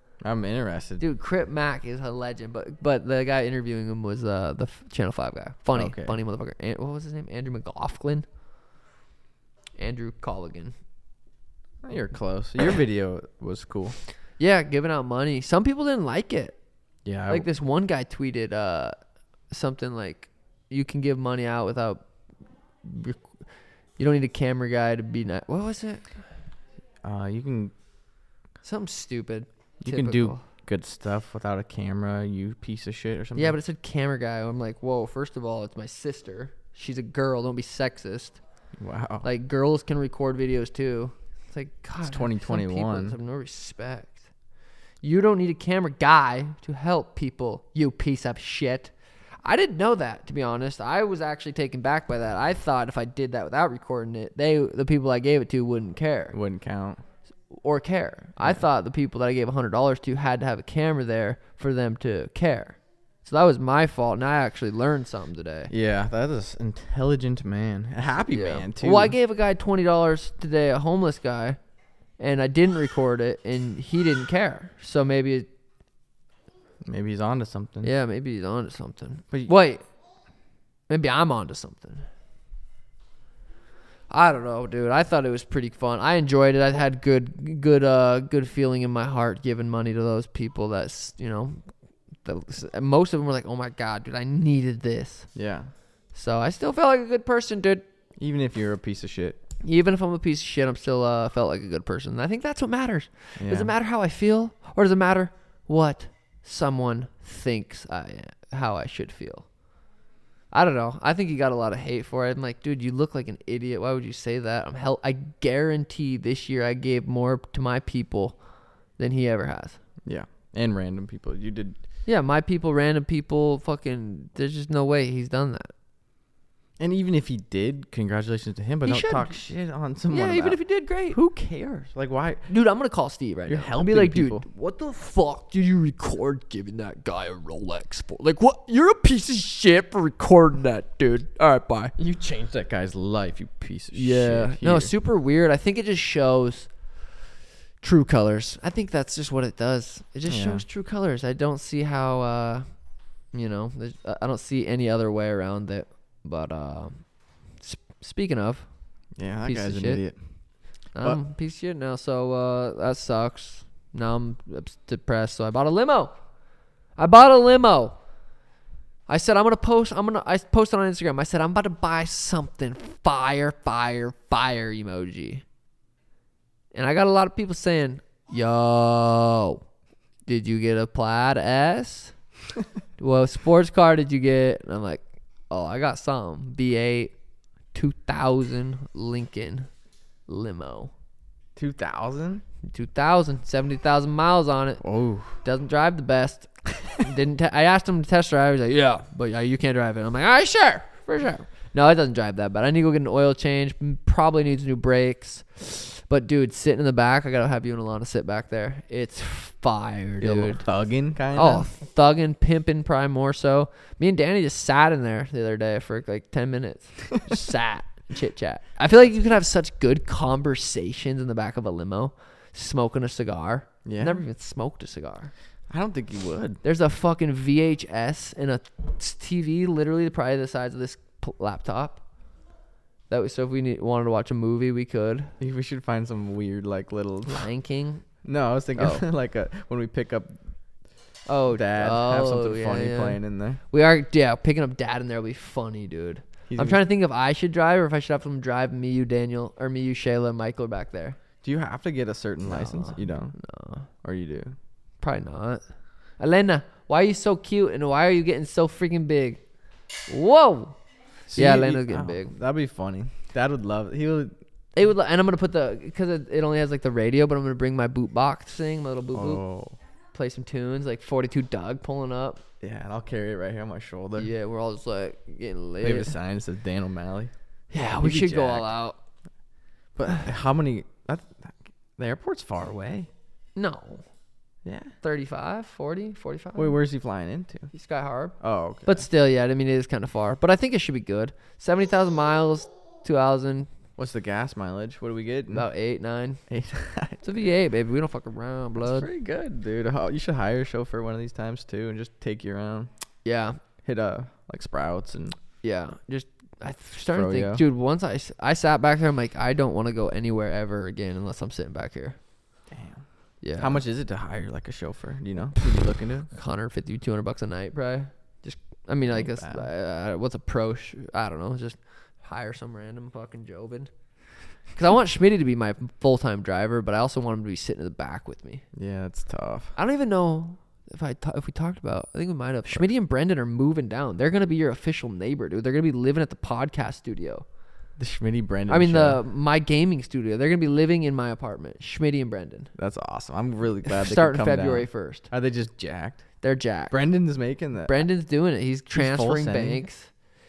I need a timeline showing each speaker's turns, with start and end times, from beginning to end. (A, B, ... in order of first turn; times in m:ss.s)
0:00.2-0:01.0 A
0:01.0-0:08.2 B
0:05.7-0:06.2 A
0:09.8-0:10.7 B
0:11.8-0:14.0 A
0:14.4-0:16.6 B
0:17.0-0:17.5 A
0:17.3-0:19.0 B
0:19.5-0:22.0 B
0:22.8-0:23.3 B
0:24.0-0:26.1 B
0:27.0-0:27.7 A
0:28.6-0:30.4 B
0:29.8-0:33.6 A
0:33.4-0:38.4 B
0:38.8-0:39.3 A
0:39.2-0:44.2 B
0:42.0-0:43.2 A
0:45.0-0:48.9 B
0:49.4-0:56.4 B
0:56.3-0:57.0 A
0:57.5-1:05.7 B
1:05.7-1:09.1 A
1:08.3-1:11.6 B
1:12.2-1:15.5 B
1:16.8-1:17.9 A
1:17.8-1:19.8 B
1:20.9-1:22.1 B
1:24.1-1:31.7 B
1:32.2-1:35.3 B
1:35.3-1:35.7 A
1:36.1-1:37.9 B
1:38.2-1:39.4 A
1:39.6-1:49.4 B
1:43.4-1:43.7 A
1:50.5-1:58.4 B
1:59.0-1:59.8 B
2:00.0-2:01.8 A
2:02.0-2:05.7 B
2:06.8-2:10.6 A
2:08.8-2:09.4 B
2:10.1-2:11.2 B
2:11.1-2:12.5 A
2:12.5-2:21.9 B
2:13.5-2:14.4 A
2:22.0-2:24.9 A
2:23.9-2:26.7 B
2:27.8-2:32.7 B
2:30.3-2:30.6 A
2:33.3-2:38.7 B
2:39.2-2:40.2 A
2:39.4-2:40.0 B
2:40.9-2:46.1 B
2:47.0-2:48.0 B
2:49.1-2:55.4 B
2:56.7-2:59.6 B
3:00.2-3:02.1 B
3:03.0-3:07.1 B
3:07.7-3:09.7 B
3:10.3-3:10.9 B
3:11.6-3:12.4 A
3:12.6-3:14.8 B
3:14.8-3:15.4 A
3:15.4-3:30.6 B
3:30.2-3:31.7 A
3:31.3-3:45.3 B
3:43.8-3:44.2 A
3:45.7-3:46.6 A
3:46.6-3:52.0 B
3:53.1-3:55.3 B
3:55.4-3:57.5 A
3:57.2-3:58.0 B
3:58.2-4:00.4 A
3:58.8-3:59.0 B
4:01.3-4:11.2 B
4:01.5-4:03.6 A
4:06.5-4:06.8 A
4:11.4-4:13.3 A
4:12.4-4:13.9 B
4:14.0-4:14.6 A
4:15.0-4:15.6 B
4:16.2-4:19.4 B
4:20.1-4:20.8 B
4:21.3-4:24.3 A
4:21.3-4:22.3 B
4:24.8-4:29.4 B
4:29.1-4:29.8 A
4:30.1-4:32.4 B
4:32.6-4:34.3 A
4:34.2-4:36.1 B
4:35.8-4:37.3 A
4:37.7-4:39.0 B
4:38.0-4:38.7 A
4:40.0-4:43.1 A
4:43.6-4:44.0 B
4:44.6-4:44.9 A
4:45.0-4:46.8 B
4:46.6-4:47.7 A
4:47.7-4:53.7 B
4:48.4-4:49.1 A
4:54.0-4:55.7 A
4:55.5-4:56.4 B
4:56.5-4:57.2 A
4:57.2-4:59.1 B
4:58.8-5:02.9 A
5:03.2-5:03.6 B
5:03.8-5:05.4 A
5:05.6-5:12.2 B
5:07.1-5:07.6 A
5:12.7-5:13.0 A
5:13.4-5:13.8 B
5:13.6-5:16.3 A
5:16.3-5:23.9 B
5:19.1-5:19.7 A
5:24.7-5:28.6 B
5:28.7-5:29.7 A
5:29.8-5:37.4 B
5:38.0-5:39.2 A
5:38.7-5:42.7 B
5:42.8-5:46.2 A
5:43.9-5:45.3 B
5:46.4-5:46.9 B
5:46.9-5:48.0 A
5:47.9-5:50.1 B
5:48.9-5:49.8 A